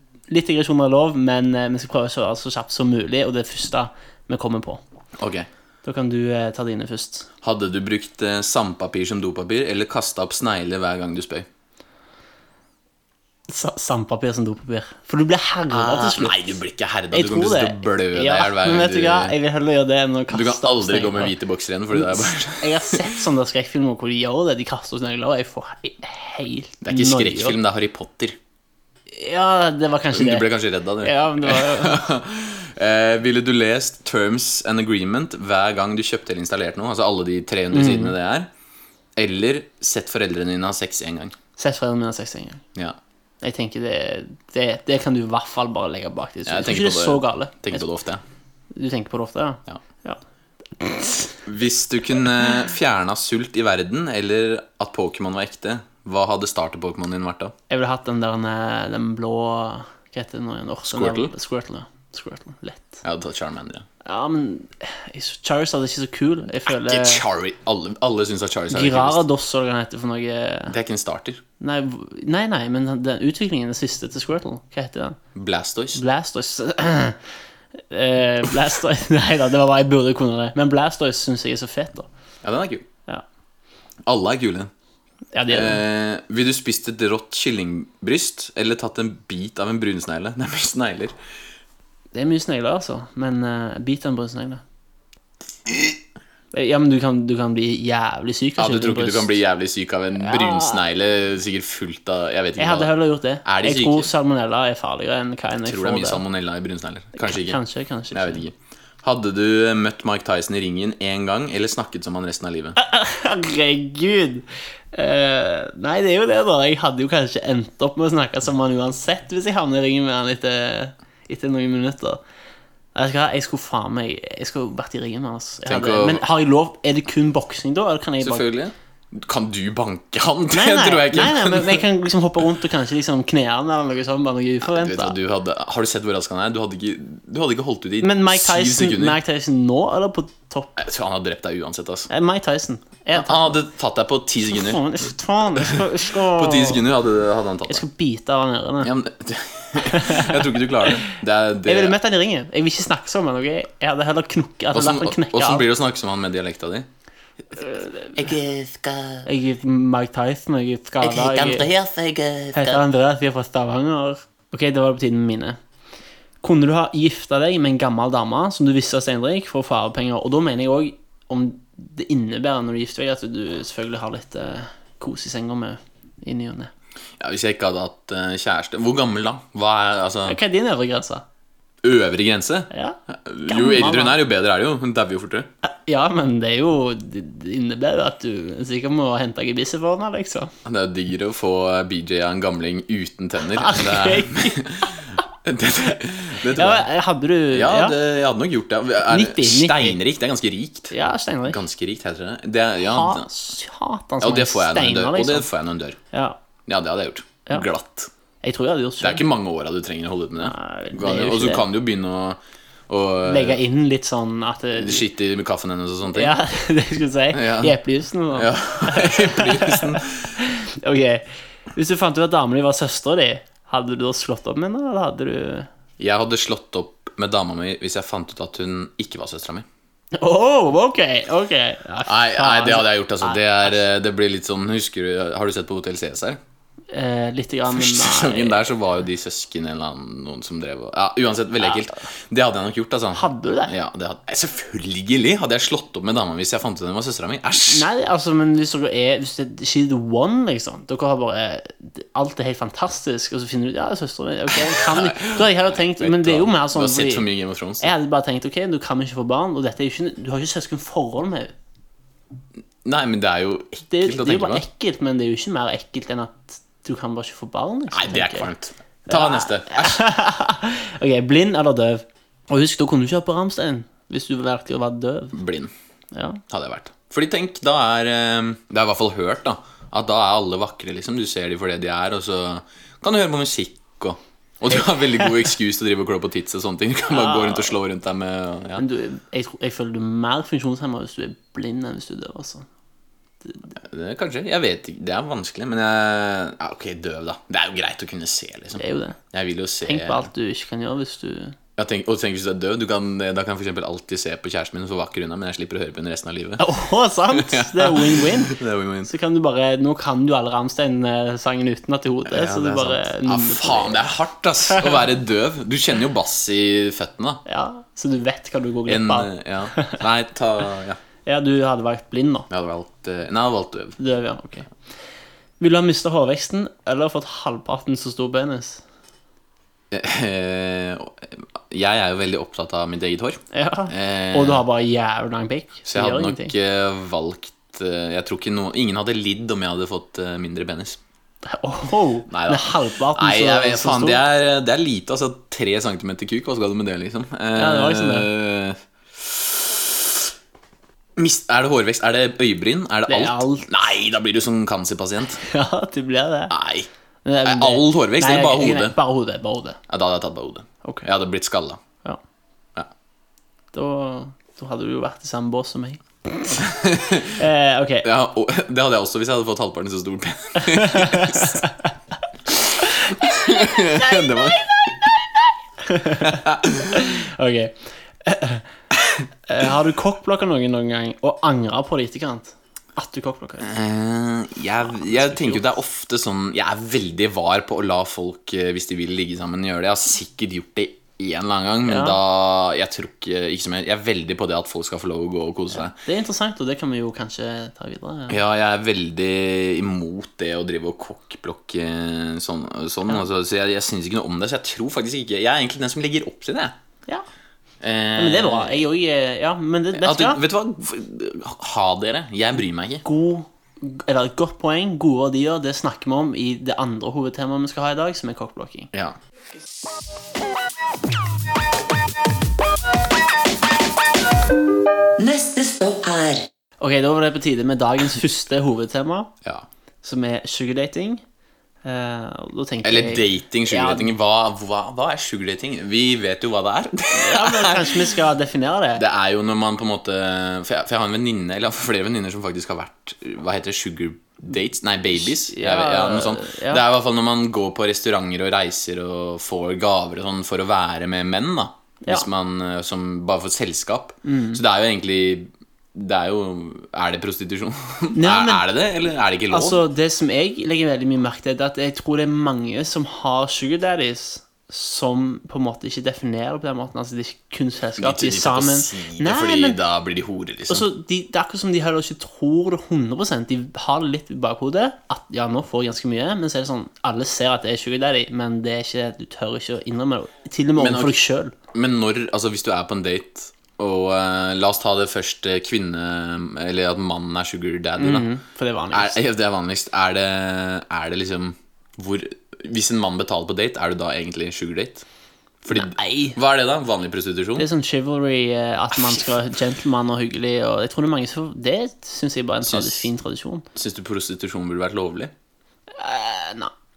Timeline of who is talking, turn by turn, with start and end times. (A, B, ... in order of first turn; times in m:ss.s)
0:00.3-0:04.8 A
0:05.2-0:05.5 B
0:05.8-0:07.3 A
0:07.4-0:11.5 B
0:13.5-0:16.6 A
0:15.7-0:19.4 B
0:17.1-0:21.4 A
0:20.3-0:23.1 B
0:21.9-0:27.6 A
0:26.8-0:28.4 B
0:29.1-0:30.5 A
0:30.1-0:38.5 B
0:31.0-0:32.0 A
0:37.7-0:38.2 A
0:39.2-0:41.4 B
0:41.6-0:42.6 A
0:43.4-0:47.9 A
0:46.5-0:48.2 B
0:48.7-0:50.2 A
0:50.8-0:51.4 A
0:51.5-0:57.5 B
0:57.7-1:03.0 A
1:00.9-1:01.3 B
1:03.0-1:03.9 B
1:04.0-1:07.2 A
1:06.7-1:09.2 B
1:08.7-1:10.8 A
1:10.7-1:11.4 B
1:11.6-1:15.2 A
1:15.4-1:16.0 B
1:16.0-1:17.2 A
1:17.9-1:22.1 A
1:22.4-1:22.9 B
1:24.1-1:24.7 B
1:25.4-1:25.8 A
1:25.5-1:31.2 B
1:32.1-1:34.6 A
1:35.7-1:36.0 B
1:36.5-1:39.4 A
1:38.6-1:42.9 B
1:40.2-1:40.8 A
1:42.6-1:46.2 A
1:43.4-1:44.1 B
1:45.6-1:47.6 B
1:47.2-1:48.4 A
1:48.1-1:52.8 B
1:52.8-2:02.2 A
2:03.0-2:08.4 A
2:05.7-2:06.2 B
2:08.2-2:11.8 B
2:10.5-2:15.2 A
2:14.6-2:19.2 B
2:18.0-2:20.8 A
2:20.8-2:22.1 B
2:22.1-2:23.6 A
2:23.1-2:24.8 B
2:24.5-2:26.8 A
2:25.6-2:27.8 B
2:27.7-2:28.9 A
2:28.8-2:32.0 B
2:29.8-2:35.7 A
2:34.7-2:36.9 B
2:37.6-2:38.1 A
2:38.2-2:39.2 C
2:39.2-2:41.7 A
2:41.0-2:42.8 C
2:42.5-2:45.6 A
2:46.4-2:56.7 A
2:57.2-3:00.4 B
3:00.2-3:01.2 A
3:01.8-3:05.5 B
3:02.7-3:04.2 A
3:05.7-3:10.5 A
3:10.6-3:16.9 B
3:13.4-3:14.9 A
3:16.4-3:18.0 A
3:17.5-3:20.9 B
3:19.1-3:20.0 A
3:20.9-3:21.6 A
3:21.5-3:23.3 B
3:22.8-3:25.5 A
3:24.2-3:26.0 B
3:26.1-3:26.4 A
3:26.7-3:28.1 B
3:28.4-3:29.3 A
3:29.0-3:33.6 B
3:30.4-3:31.7 A
3:33.2-3:35.1 A
3:34.8-3:36.4 B
3:36.1-3:45.7 A
3:37.3-3:37.8 B
3:38.3-3:40.4 B
3:46.0-3:49.7 B
3:50.2-3:53.8 A
3:52.1-3:56.4 B
3:56.9-3:58.7 A
3:57.7-4:07.9 B
4:03.2-4:03.8 A
4:07.7-4:17.3 A
4:14.5-4:17.9 B
4:17.8-4:21.5 A
4:22.8-4:24.7 B
4:23.9-4:28.5 A
4:27.9-4:30.0 B
4:29.1-4:35.4 A
4:35.3-4:35.7 B
4:36.1-4:36.4 A
4:36.5-4:48.8 B
4:47.1-4:47.8 A
4:48.8-4:52.7 A
4:53.8-5:00.3 B
4:58.8-4:59.2 A
4:59.8-5:01.6 A
5:01.8-5:06.7 B
5:06.6-5:14.0 A
5:07.3-5:09.1 B
5:12.3-5:17.4 B
5:17.5-5:20.0 A
5:18.9-5:21.0 B
5:21.2-5:22.5 A
5:22.5-5:24.0 B
5:24.0-5:24.7 A
5:25.6-5:28.8 A
5:29.9-5:34.6 B
5:33.5-5:36.5 A
5:35.9-5:41.0 B
5:41.4-5:44.2 A
5:42.3-5:50.3 B
5:47.6-5:48.3 A
5:51.2-5:55.4 B
5:53.1-5:53.7 A
5:55.4-5:56.6 A
5:56.5-5:56.9 B
5:57.2-5:59.8 A
5:57.4-5:59.0 B
5:59.9-6:01.8 B
6:03.7-6:06.7 A
6:06.5-6:07.4 B
6:07.3-6:08.1 A
6:08.0-6:11.6 B
6:10.6-6:11.9 A
6:12.5-6:15.0 B
6:12.8-6:15.3 A
6:15.8-6:18.7 A
6:16.2-6:17.2 B
6:19.0-6:19.2 B
6:19.5-6:23.7 A
6:23.6-6:36.0 B
6:25.0-6:25.6 A
6:31.9-6:32.2 A
6:35.8-6:38.4 A
6:38.3-6:46.8 B
6:47.8-6:48.8 B
6:48.2-6:50.4 A
6:49.9-6:53.0 B
6:53.0-6:58.9 A
7:05.2-7:06.5 C
7:06.8-7:09.3 A
7:10.0-7:11.2 A
7:11.8-7:14.1 A
7:12.8-7:18.2 B
7:17.1-7:19.0 A
7:19.0-7:39.8 B
7:25.2-7:26.8 A
7:34.2-7:34.6 A
7:38.1-7:38.7 A
7:39.5-7:49.8 A
7:48.0-7:50.9 B
7:50.7-8:01.5 A
8:00.8-8:01.2 B
8:01.7-8:08.3 B
8:08.0-8:09.2 A
8:08.9-8:15.0 B
8:15.6-8:17.7 B
8:15.7-8:16.4 A
8:17.6-8:23.7 A
8:19.0-8:19.3 B
8:22.6-8:23.1 B
8:23.8-8:25.3 B
8:26.0-8:26.7 A